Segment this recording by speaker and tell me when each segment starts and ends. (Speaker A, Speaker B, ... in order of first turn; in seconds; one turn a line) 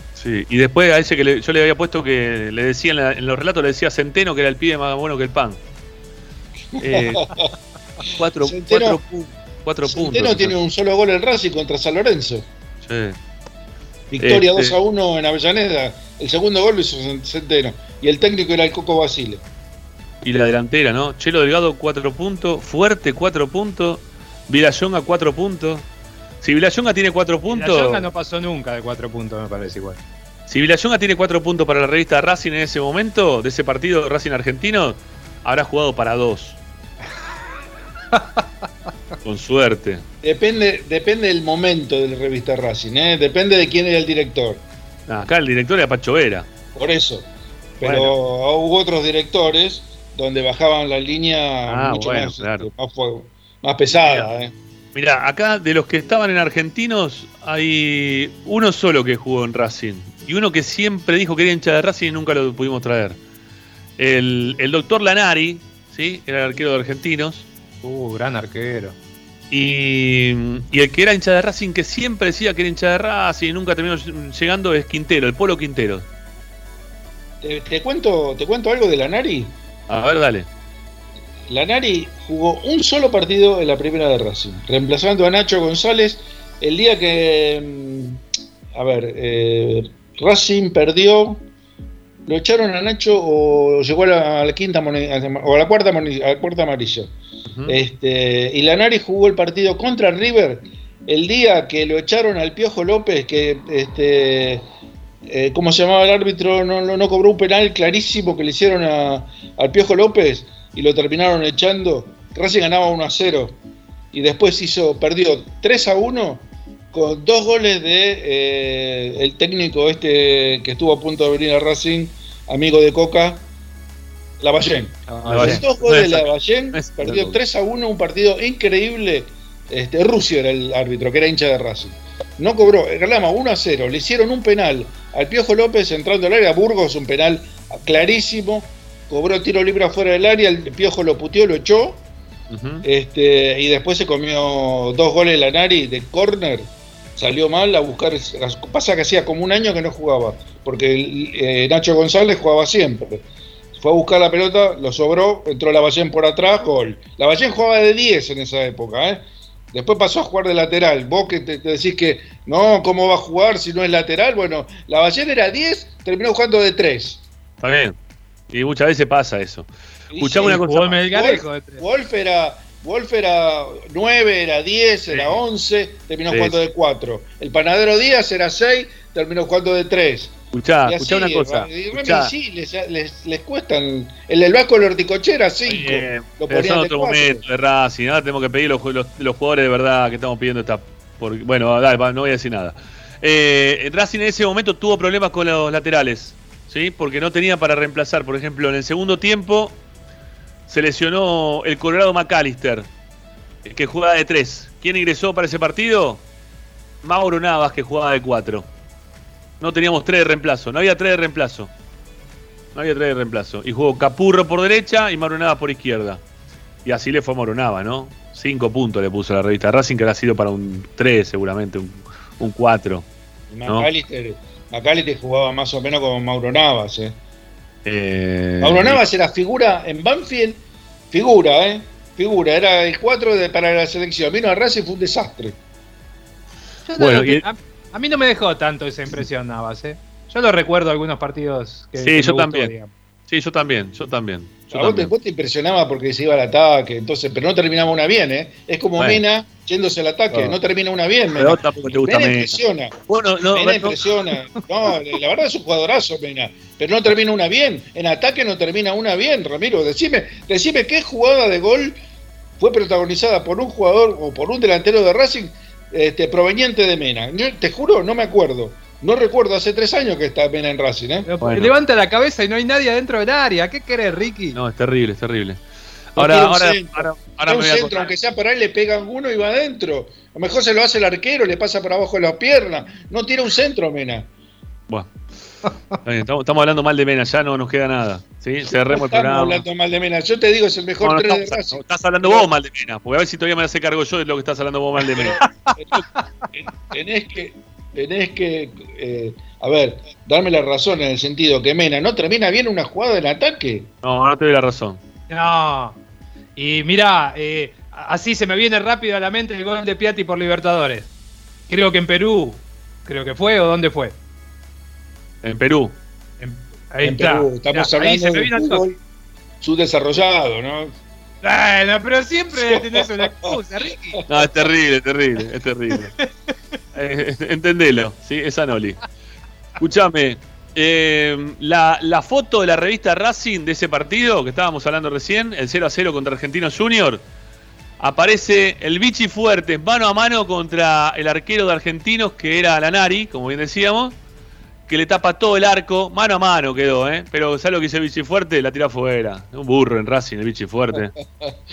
Speaker A: 0.2-5.6
Speaker B: 6.8-7.5
Speaker A: 6.8-7.3
Speaker A: 8.1-10.6
Speaker B: 8.4-9.0
Speaker B: 9.9-12.5
Speaker A: 12.8-13.2
Speaker B: 14.1-19.4
Speaker A: 14.2-14.8
Speaker A: 20.2-25.9
Speaker A: 26.4-28.1
Speaker C: 27.5-30.0
Speaker A: 30.5-36.6
Speaker A: 39.2-40.0
Speaker B: 40.2-44.6
Speaker A: 45.1-46.5
Speaker B: 46.8-47.3
Speaker B: 47.8-54.5
Speaker A: 47.8-48.1
Speaker A: 51.7-52.7
Speaker A: 53.9-54.3
Speaker A: 54.9-63.2
Speaker A: 64.0-67.5
Speaker C: 67.8-69.0
Speaker A: 69.5-76.1
Speaker B: 77.4-79.6
Speaker A: 79.9-80.5
Speaker B: 81.5-88.2
Speaker B: 88.8-91.4
Speaker B: 92.3-97.1
Speaker A: 97.5-97.8
Speaker B: 97.7-104.7
Speaker B: 105.3-113.6
Speaker B: 114.1-123.4
Speaker B: 124.4-142.0
Speaker A: 125.1-127.4
Speaker C: 125.2-125.6
Speaker A: 142.5-142.8
Speaker B: 142.8-153.2
Speaker B: 153.8-167.2
Speaker A: 167.6-168.0
Speaker A: 168.5-169.7
Speaker B: 170.1-180.3
Speaker A: 170.2-171.0
Speaker C: 170.4-171.8
Speaker A: 175.1-175.4
Speaker A: 176.3-176.6
Speaker A: 180.5-182.3
Speaker B: 180.8-187.4
Speaker A: 185.7-199.8
Speaker A: 200.7-202.9
Speaker A: 203.7-206.2
Speaker A: 207.0-208.7
Speaker A: 209.6-211.7
Speaker A: 212.8-216.2
Speaker A: 216.8-223.1
Speaker B: 223.5-227.2
Speaker A: 227.8-229.0
Speaker B: 228.6-235.6
Speaker C: 236.9-242.9
Speaker A: 237.0-237.4
Speaker A: 242.0-242.7
Speaker A: 243.3-245.1
Speaker B: 244.7-252.9
Speaker A: 249.0-249.2
Speaker A: 250.3-250.6
Speaker A: 251.3-254.6
Speaker B: 253.5-262.0
Speaker B: 262.6-271.3
Speaker C: 271.2-274.6
Speaker A: 271.4-271.7
Speaker A: 274.6-275.6
Speaker A: 276.1-278.1
Speaker B: 276.2-284.3
Speaker A: 286.1-289.6
Speaker B: 288.9-292.5
Speaker A: 291.0-295.4
Speaker B: 295.2-296.0
Speaker B: 296.6-303.9
Speaker A: 304.0-305.0
Speaker C: 305.3-306.0
Speaker C: 306.6-311.1
Speaker C: 311.7-314.1
Speaker A: 315.4-315.9
Speaker C: 316.4-318.8
Speaker B: 317.0-319.0
Speaker B: 319.6-320.9
Speaker C: 321.4-324.2
Speaker B: 322.6-323.5
Speaker B: 324.2-324.5
Speaker A: 324.3-326.1
Speaker A: 326.9-329.0
Speaker A: 329.8-337.2
Speaker A: 338.0-344.2
Speaker A: 344.9-351.1
Speaker B: 351.1-351.5